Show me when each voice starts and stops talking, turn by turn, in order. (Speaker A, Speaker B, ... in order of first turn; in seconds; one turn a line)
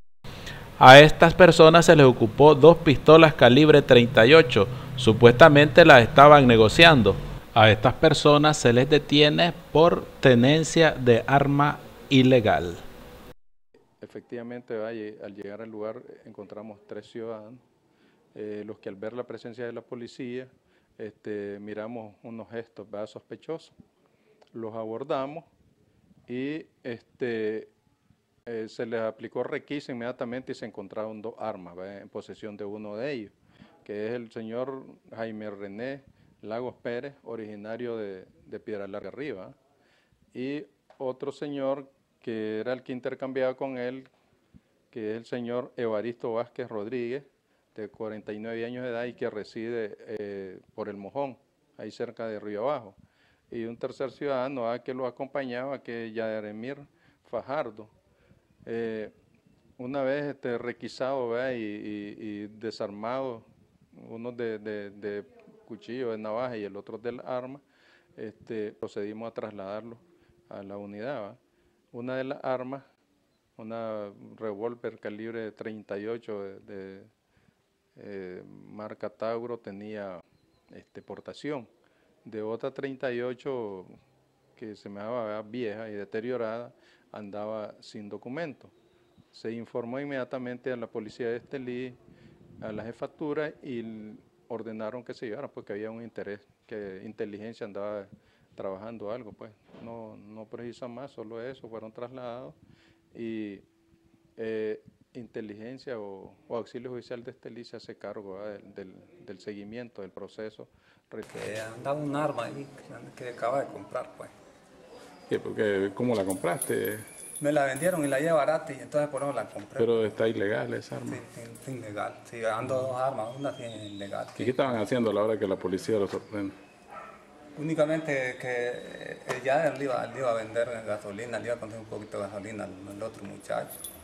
Speaker A: 0.8-12.8
Speaker B: 14.0-17.6
Speaker B: 18.4-23.7
Speaker B: 24.5-25.5
Speaker B: 26.3-27.7
Speaker B: 28.5-33.3
Speaker B: 33.9-39.5
Speaker B: 40.3-44.1
Speaker B: 44.9-53.0
Speaker B: 53.5-57.9
Speaker B: 58.7-59.1
Speaker B: 59.8-67.6
Speaker B: 68.2-71.4
Speaker B: 71.9-72.8
Speaker B: 73.6-77.1
Speaker B: 78.0-81.7
Speaker B: 82.2-83.9
Speaker B: 84.6-88.7
Speaker B: 89.3-92.0
Speaker B: 92.6-102.6
Speaker B: 103.2-103.7
Speaker B: 104.4-111.3
Speaker C: 111.3-114.3
Speaker D: 115.3-117.1
Speaker C: 117.4-120.1
Speaker D: 119.8-121.2
Speaker C: 121.1-124.5
Speaker D: 124.4-126.6
Speaker C: 127.6-133.8